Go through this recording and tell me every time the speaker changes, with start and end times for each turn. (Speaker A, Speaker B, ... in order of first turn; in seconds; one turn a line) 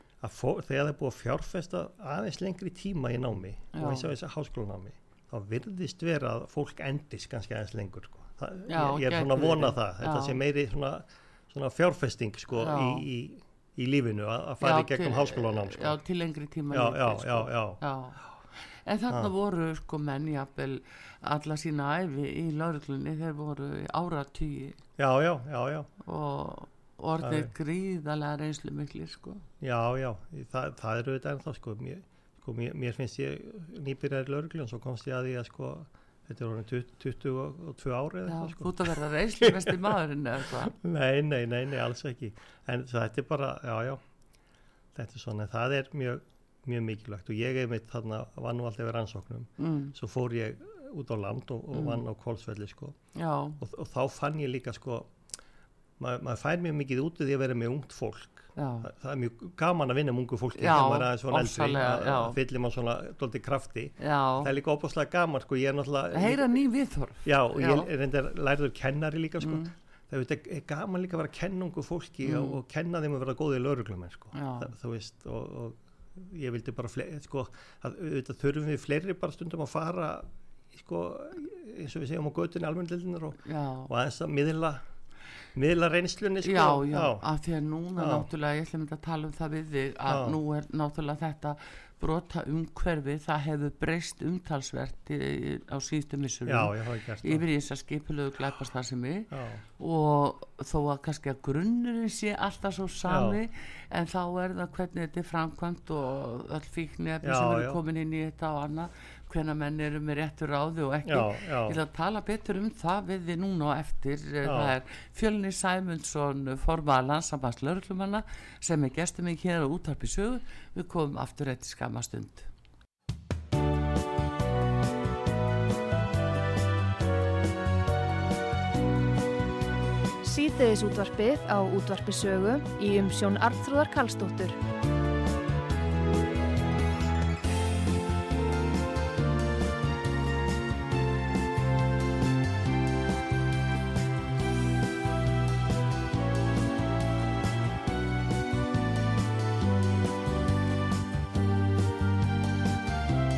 Speaker A: 0.2-16.0
Speaker B: 3.7-4.1
Speaker B: 8.7-10.4
Speaker B: 12.6-13.1
Speaker B: 14.6-18.2
Speaker A: 16.7-17.8
Speaker B: 18.9-24.8
Speaker A: 25.0-25.9
Speaker B: 26.0-29.4
Speaker A: 27.2-27.5
Speaker A: 29.6-40.0
Speaker B: 38.3-40.7
Speaker A: 40.6-44.0
Speaker A: 44.9-53.0
Speaker B: 49.6-50.0
Speaker B: 51.7-52.0
Speaker B: 53.1-53.6
Speaker A: 53.6-55.1
Speaker A: 56.0-66.5
Speaker B: 58.6-58.9
Speaker B: 60.5-62.4
Speaker B: 64.0-64.5
Speaker B: 66.1-67.9
Speaker A: 67.2-84.8
Speaker B: 69.4-69.7
Speaker B: 72.2-72.6
Speaker B: 74.3-74.7
Speaker B: 83.4-83.9
Speaker A: 85.5-87.2
Speaker B: 86.4-122.5
Speaker A: 88.0-88.3
Speaker A: 90.1-90.4
Speaker A: 96.5-97.5
Speaker A: 99.3-99.6
Speaker A: 103.1-103.4
Speaker A: 107.2-107.8
Speaker A: 111.1-111.8
Speaker A: 114.4-114.8
Speaker C: 130.2-134.6